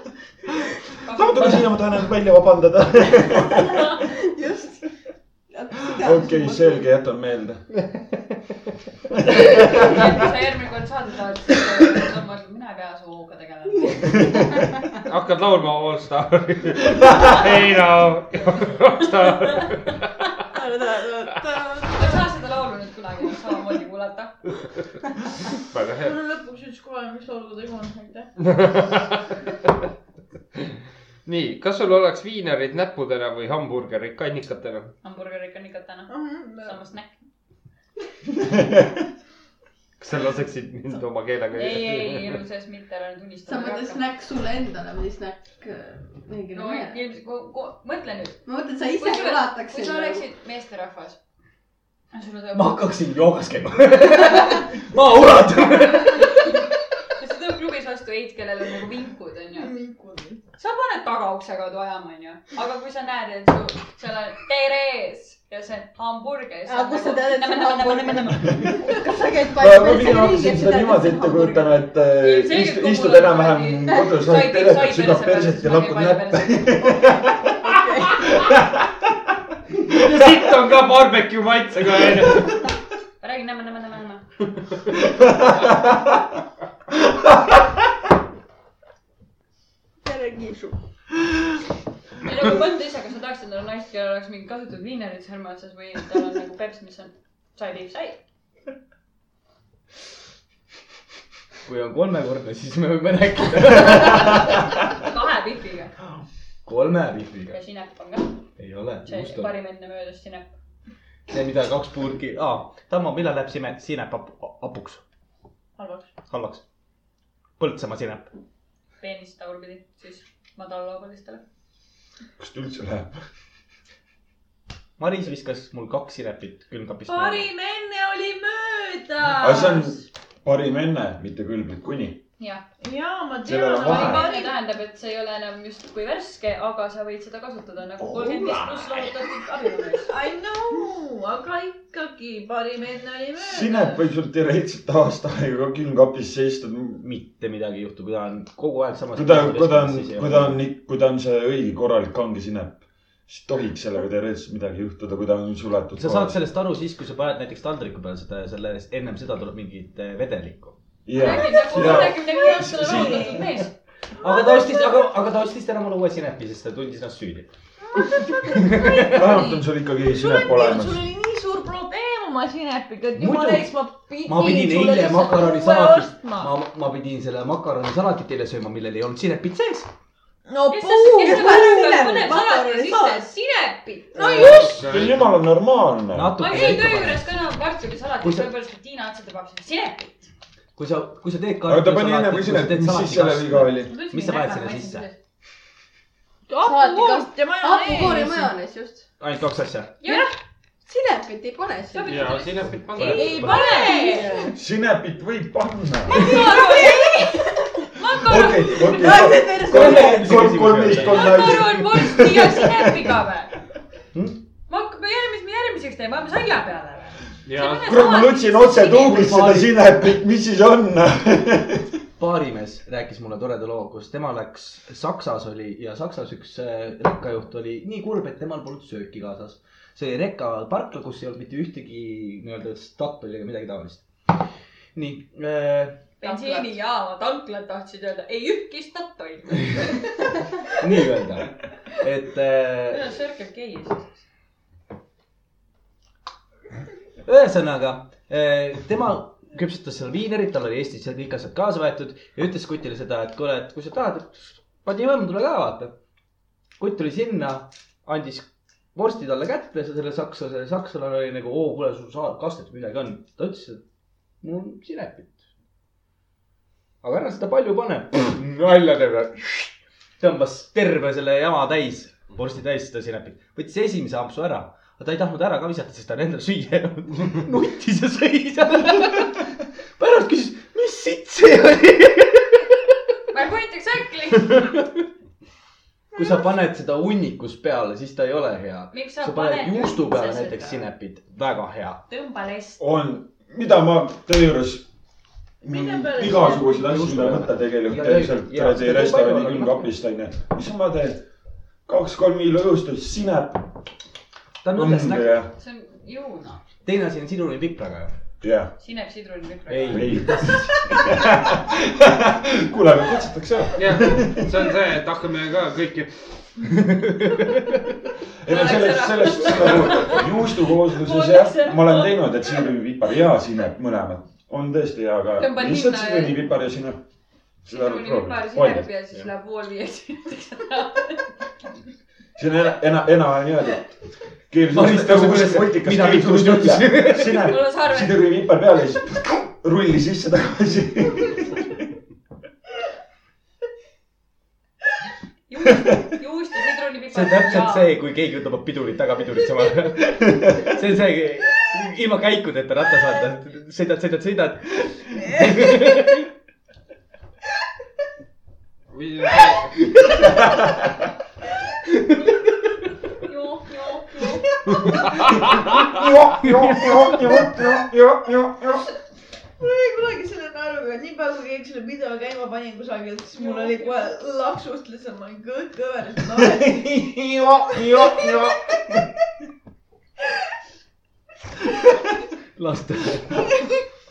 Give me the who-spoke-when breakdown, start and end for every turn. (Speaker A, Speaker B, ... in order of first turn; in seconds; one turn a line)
Speaker A: 1.0-1.7
Speaker B: 1.1-3.9
Speaker C: 4.0-4.8
Speaker C: 5.5-6.8
Speaker B: 5.9-7.6
Speaker B: 9.2-10.1
Speaker A: 9.5-14.4
Speaker D: 15.0-20.1
Speaker C: 20.5-22.2
Speaker A: 21.8-24.4
Speaker D: 25.7-26.1
Speaker E: 26.0-28.3
Speaker D: 28.4-29.2
Speaker D: 31.2-34.9
Speaker A: 35.0-37.1
Speaker E: 36.1-36.8
Speaker D: 40.0-42.4
Speaker A: 41.5-44.0
Speaker C: 43.5-47.0
Speaker A: 46.5-51.2
Speaker C: 48.4-50.2
Speaker A: 52.1-52.8
Speaker F: 52.5-56.5
Speaker A: 54.3-54.6
Speaker A: 56.0-56.6
Speaker A: 57.1-59.7
Speaker E: 59.5-60.4
Speaker A: 60.6-68.9
Speaker C: 66.7-71.8
Speaker B: 69.5-79.0
Speaker A: 72.2-77.0
Speaker C: 77.6-78.3
Speaker D: 79.9-82.7
Speaker A: 83.2-84.2
Speaker B: 85.0-86.2
Speaker B: 86.9-87.6
Speaker C: 90.0-90.8
Speaker A: 92.2-98.2
Speaker F: 101.6-104.6
Speaker A: 105.0-105.9
Speaker F: 106.7-107.6
Speaker A: 107.5-108.4
Speaker F: 108.6-109.5
Speaker A: 109.0-110.5
Speaker F: 111.3-115.0
Speaker E: 115.8-116.2
Speaker F: 116.2-116.6
Speaker F: 117.6-118.3
Speaker A: 119.0-121.4
Speaker B: 122.4-123.2
Speaker F: 125.0-127.5
Speaker E: 127.0-130.0
Speaker B: 129.3-132.2
Speaker A: 132.4-132.6
Speaker E: 132.8-134.6
Speaker B: 133.4-134.3
Speaker A: 133.7-140.1
Speaker B: 138.2-138.9
Speaker E: 140.0-144.0
Speaker B: 143.4-147.0
Speaker F: 147.0-150.6
Speaker B: 149.1-156.4
Speaker F: 155.9-160.7
Speaker B: 161.1-163.4
Speaker A: 161.1-163.7
Speaker E: 161.2-163.5
Speaker F: 164.2-167.5
Speaker E: 164.2-165.0
Speaker E: 167.9-176.5
Speaker F: 168.5-169.4
Speaker B: 169.0-171.0
Speaker F: 173.2-173.7
Speaker F: 174.2-179.9
Speaker E: 180.4-183.2
Speaker A: 180.7-184.7
Speaker C: 181.3-182.1
Speaker E: 184.1-184.9
Speaker D: 184.4-185.3
Speaker B: 184.5-186.3
Speaker F: 186.1-187.3
Speaker A: 186.4-190.3
Speaker F: 188.2-188.5
Speaker F: 190.8-195.1
Speaker B: 191.6-193.9
Speaker A: 193.9-195.1
Speaker E: 196.5-198.5
Speaker C: 196.6-199.1
Speaker F: 199.2-200.0
Speaker A: 200.0-200.3
Speaker C: 200.8-202.3
Speaker A: 201.9-204.4
Speaker D: 202.1-203.3
Speaker F: 202.9-203.7
Speaker E: 203.1-204.5
Speaker C: 203.8-204.5
Speaker B: 204.5-206.2
Speaker A: 206.1-209.3
Speaker E: 206.1-207.1
Speaker B: 208.2-213.1
Speaker E: 209.1-209.7
Speaker F: 209.6-211.8
Speaker A: 211.0-213.5
Speaker F: 214.1-214.4
Speaker A: 214.7-219.3
Speaker D: 217.4-217.9
Speaker B: 217.8-222.0
Speaker F: 219.1-219.7
Speaker F: 222.2-234.1
Speaker F: 234.9-236.2
Speaker A: 236.2-240.1
Speaker E: 236.4-236.7
Speaker F: 240.8-243.0
Speaker A: 242.9-244.2
Speaker F: 247.2-255.9
Speaker F: 256.8-263.8
Speaker F: 264.4-265.3
Speaker F: 267.0-279.4
Speaker F: 280.0-282.6
Speaker A: 283.3-284.8
Speaker F: 284.5-284.9
Speaker F: 286.1-292.0
Speaker A: 288.9-290.9
Speaker A: 292.1-292.8
Speaker B: 292.8-294.9
Speaker E: 295.6-297.0
Speaker B: 295.6-301.2
Speaker F: 296.7-299.9
Speaker B: 301.9-303.8
Speaker F: 304.6-305.4
Speaker B: 304.7-305.5
Speaker A: 305.5-306.6
Speaker F: 306.8-308.1
Speaker B: 308.4-308.7
Speaker A: 308.8-310.2
Speaker F: 309.7-311.2
Speaker B: 309.9-314.6
Speaker D: 313.8-316.4
Speaker F: 316.7-317.8
Speaker B: 318.4-327.0
Speaker A: 318.5-320.3
Speaker A: 320.8-322.7
Speaker A: 325.4-326.4
Speaker B: 327.6-328.9
Speaker A: 327.7-331.3
Speaker B: 332.4-333.9
Speaker B: 334.5-341.8
Speaker F: 334.7-337.5
Speaker A: 337.3-338.3
Speaker A: 345.5-347.9
Speaker F: 347.1-356.3
Speaker D: 358.9-359.7
Speaker F: 359.8-360.1
Speaker A: 363.2-364.5
Speaker B: 365.3-368.8
Speaker F: 366.4-367.5
Speaker E: 369.6-376.9
Speaker A: 373.4-374.1
Speaker B: 376.3-379.0
Speaker E: 378.0-378.3
Speaker F: 382.5-383.5
Speaker E: 383.4-383.7